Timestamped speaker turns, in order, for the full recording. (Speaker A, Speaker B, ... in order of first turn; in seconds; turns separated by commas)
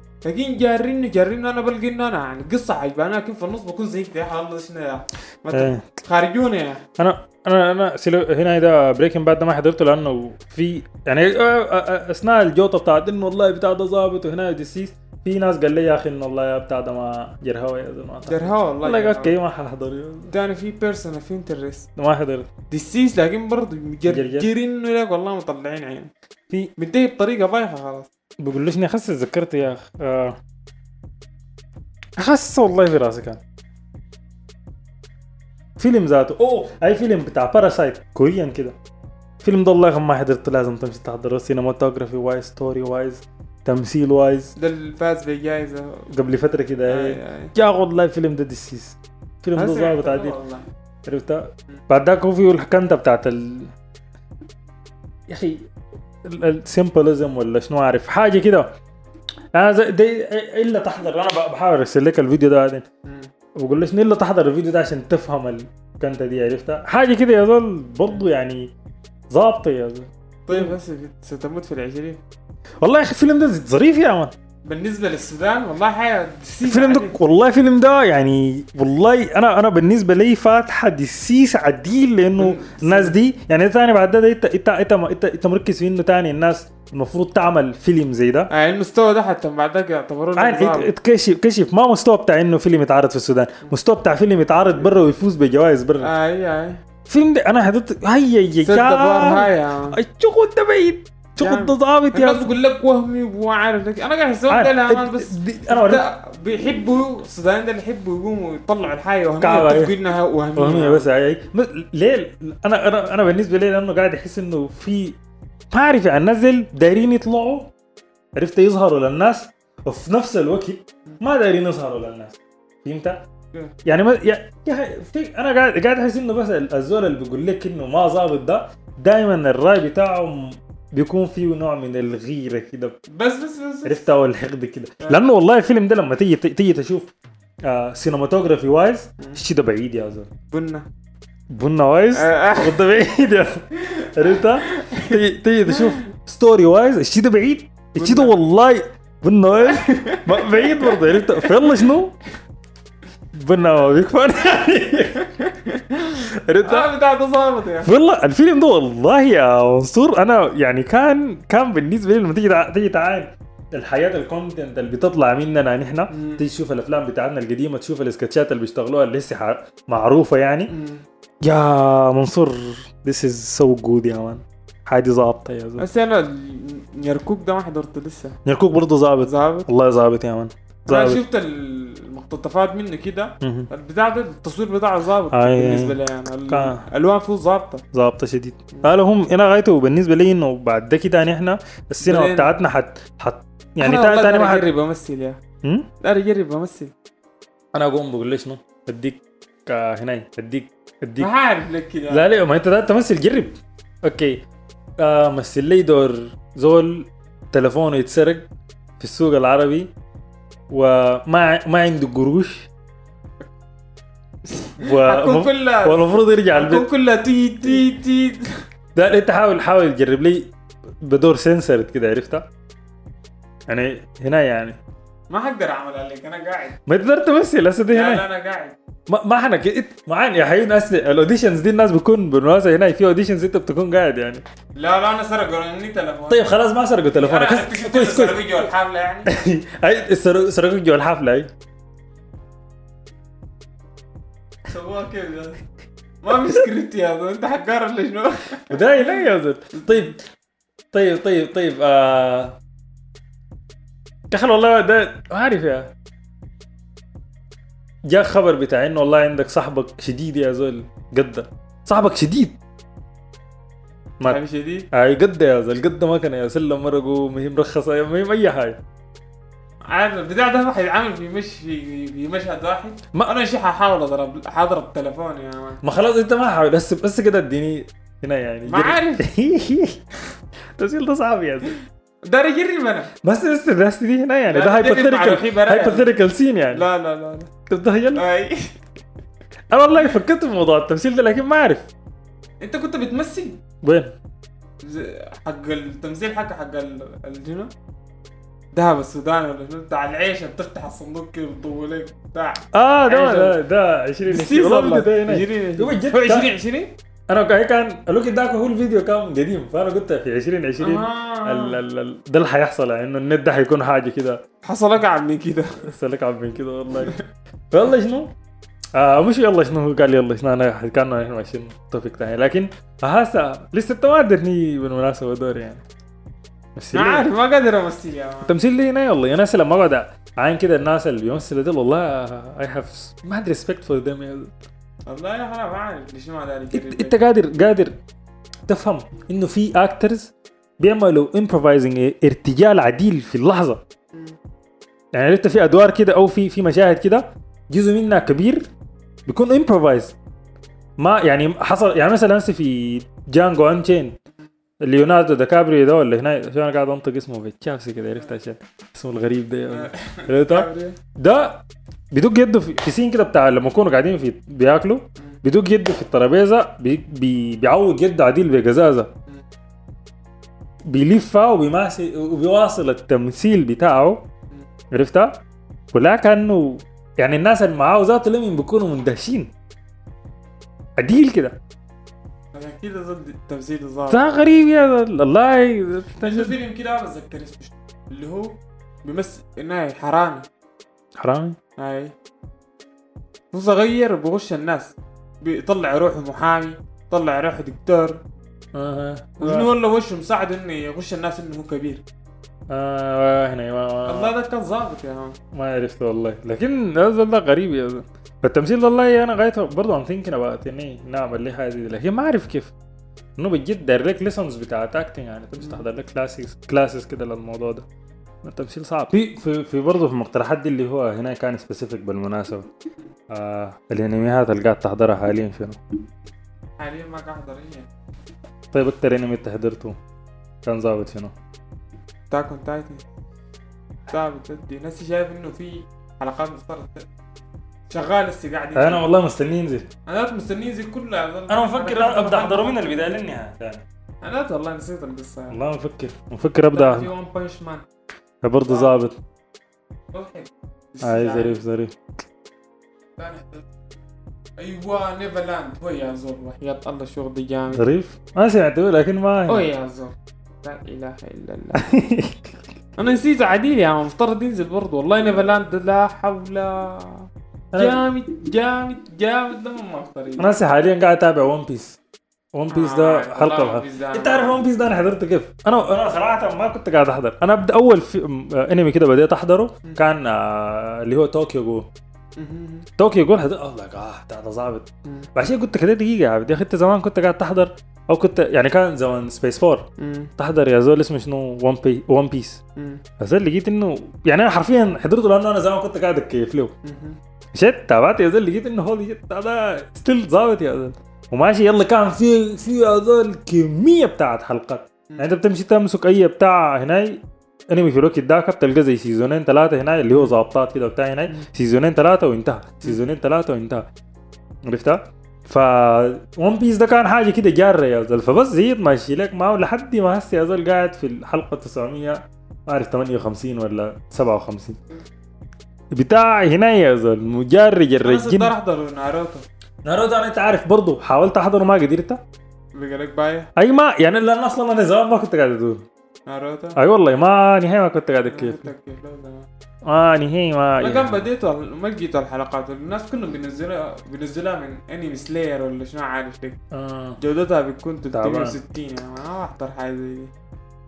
Speaker A: 0.2-6.8, Speaker B: 5.5-5.8, Speaker B: 7.0-20.3, Speaker A: 18.2-19.3, Speaker A: 20.3-21.9, Speaker B: 21.9-22.5, Speaker A: 22.7-26.1, Speaker B: 24.1-24.5, Speaker A: 26.8-28.1, Speaker B: 28.4-30.4, Speaker B: 32.2-33.4, Speaker B: 35.8-38.8, Speaker B: 39.4-44.5, Speaker A: 44.6-46.1, Speaker B: 46.1-50.3, Speaker A: 46.9-47.5, Speaker A: 49.5-50.7, Speaker B: 51.0-53.7, Speaker B: 55.3-55.6, Speaker B: 56.2-58.7, Speaker B: 59.5-62.8, Speaker A: 63.0-63.3, Speaker B: 63.6-68.7, Speaker B: 69.3-70.7, Speaker A: 70.5-72.2, Speaker B: 72.8-74.3, Speaker A: 74.7-77.2, Speaker B: 76.6-88.5, Speaker A: 82.3-83.2, Speaker A: 88.5-90.9, Speaker B: 90.3-96.1, Speaker A: 96.0-96.8, Speaker B: 97.1-102.5, Speaker A: 98.6-100.0, Speaker A: 101.4-111.1, Speaker B: 104.5-106.0, Speaker B: 109.4-109.9, Speaker B: 110.5-115.2, Speaker B: 115.7-117.7, Speaker B: 118.3-123.2, Speaker B: 123.8-133.0, Speaker A: 133.1-134.0, Speaker B: 133.8-137.1, Speaker A: 135.0-135.2, Speaker B: 137.6-140.3, Speaker A: 140.5-140.8, Speaker B: 141.5-152.2, Speaker A: 142.1-142.8, Speaker A: 143.9-146.0, Speaker A: 147.9-148.4, Speaker A: 149.5-151.8, Speaker B: 153.3-155.3, Speaker A: 155.3-157.9, Speaker B: 156.2-156.9, Speaker B: 157.8-170.7, Speaker A: 166.1-166.4, Speaker A: 170.7-171.0, Speaker B: 171.4-175.8, Speaker A: 175.8-178.3, Speaker B: 178.4-181.2, Speaker A: 179.2-179.7, Speaker A: 180.9-187.8, Speaker B: 183.4-183.7, Speaker B: 185.3-185.9, Speaker B: 186.5-186.8, Speaker B: 187.9-194.6, Speaker A: 192.0-192.5, Speaker A: 193.8-195.4, Speaker B: 195.6-195.9, Speaker A: 196.0-196.9, Speaker B: 197.7-201.3, Speaker A: 201.2-202.2, Speaker B: 202.1-204.4, Speaker B: 205.0-208.5, Speaker B: 209.0-209.9, Speaker B: 210.7-212.7, Speaker A: 214.4-218.6, Speaker B: 214.8-216.9, Speaker B: 218.9-222.4, Speaker B: 223.7-224.8, Speaker A: 225.3-226.8, Speaker B: 226.8-228.2, Speaker A: 227.9-228.8, Speaker B: 229.1-234.4, Speaker A: 234.8-236.5, Speaker B: 236.3-238.7, Speaker A: 237.1-239.3, Speaker B: 239.2-241.5, Speaker A: 244.7-245.6, Speaker A: 246.2-248.8, Speaker B: 248.7-250.2, Speaker A: 249.8-250.1, Speaker B: 250.9-252.6, Speaker B: 254.3-255.9, Speaker B: 258.1-262.6, Speaker A: 264.2-264.9, Speaker B: 264.9-268.8, Speaker A: 269.9-275.8, Speaker B: 275.8-280.0, Speaker A: 278.6-279.3, Speaker B: 280.8-281.8, Speaker A: 282.2-283.1, Speaker B: 283.2-286.9, Speaker A: 284.5-286.1, Speaker A: 286.7-287.5, Speaker B: 287.7-288.2, Speaker A: 288.1-288.8, Speaker B: 289.7-291.9, Speaker A: 289.9-290.2, Speaker A: 292.6-293.6, Speaker B: 293.8-294.1, Speaker A: 294.8-297.7, Speaker A: 298.7-303.6, Speaker B: 302.7-306.5, Speaker A: 304.3-306.9, Speaker B: 307.3-314.4, Speaker A: 310.8-311.8, Speaker A: 314.6-315.8, Speaker B: 315.8-317.1, Speaker A: 317.0-317.2, Speaker B: 317.7-318.3, Speaker B: 318.9-325.8, Speaker B: 326.8-327.3, Speaker A: 326.9-328.5, Speaker B: 328.4-334.5, Speaker A: 335.1-337.2, Speaker B: 336.7-337.9, Speaker B: 338.7-343.8, Speaker B: 345.1-348.7, Speaker B: 349.3-350.1, Speaker B: 351.0-354.1, Speaker B: 354.8-369.1, Speaker A: 359.7-361.0, Speaker B: 370.9-374.3, Speaker B: 374.9-375.4, Speaker B: 375.9-379.5, Speaker B: 381.0-381.6, Speaker A: 382.5-384.3, Speaker B: 384.1-386.6, Speaker A: 386.2-390.5, Speaker B: 391.2-391.6, Speaker A: 391.8-392.1, Speaker A: 393.5-398.2, Speaker B: 398.7-399.7, Speaker A: 399.4-402.0, Speaker B: 402.7-404.3, Speaker A: 404.1-405.4, Speaker B: 405.5-412.7, Speaker B: 413.4-417.9, Speaker A: 415.6-415.9, Speaker B: 418.4-422.7, Speaker B: 423.3-425.8, Speaker A: 426.8-427.9, Speaker B: 428.7-430.0, Speaker B: 430.6-431.3, Speaker A: 432.3-433.0, Speaker A: 434.1-437.1, Speaker A: 437.9-439.0, Speaker B: 438.7-439.9, Speaker A: 440.1-443.0, Speaker B: 441.5-443.8, Speaker A: 444.2-445.5, Speaker B: 445.5-447.1, Speaker A: 446.7-447.8, Speaker B: 448.4-449.2, Speaker A: 448.6-448.9, Speaker A: 450.1-451.6, Speaker B: 451.0-452.0, Speaker A: 453.2-453.7, Speaker A: 454.6-457.8, Speaker B: 457.7-459.6, Speaker A: 459.5-462.0, Speaker B: 461.7-462.5, Speaker A: 463.0-470.6, Speaker B: 467.7-468.0, Speaker B: 470.4-472.0, Speaker B: 472.5-481.9, Speaker A: 472.7-474.6, Speaker A: 482.4-482.9, Speaker B: 483.0-492.6, Speaker A: 490.0-490.3, Speaker A: 492.8-493.0, Speaker B: 493.2-496.7, Speaker A: 496.8-497.2, Speaker B: 497.5-513.9, Speaker B: 514.6-524.8, Speaker B: 525.9-528.5, Speaker A: 528.0-529.4, Speaker B: 529.8-532.2, Speaker A: 532.7-533.5, Speaker B: 533.5-535.8, Speaker A: 536.3-536.8, Speaker B: 536.8-538.7, Speaker A: 538.3-539.5, Speaker B: 539.9-541.2, Speaker A: 540.8-546.6, Speaker B: 546.7-547.2, Speaker A: 547.2-550.3, Speaker B: 548.1-548.6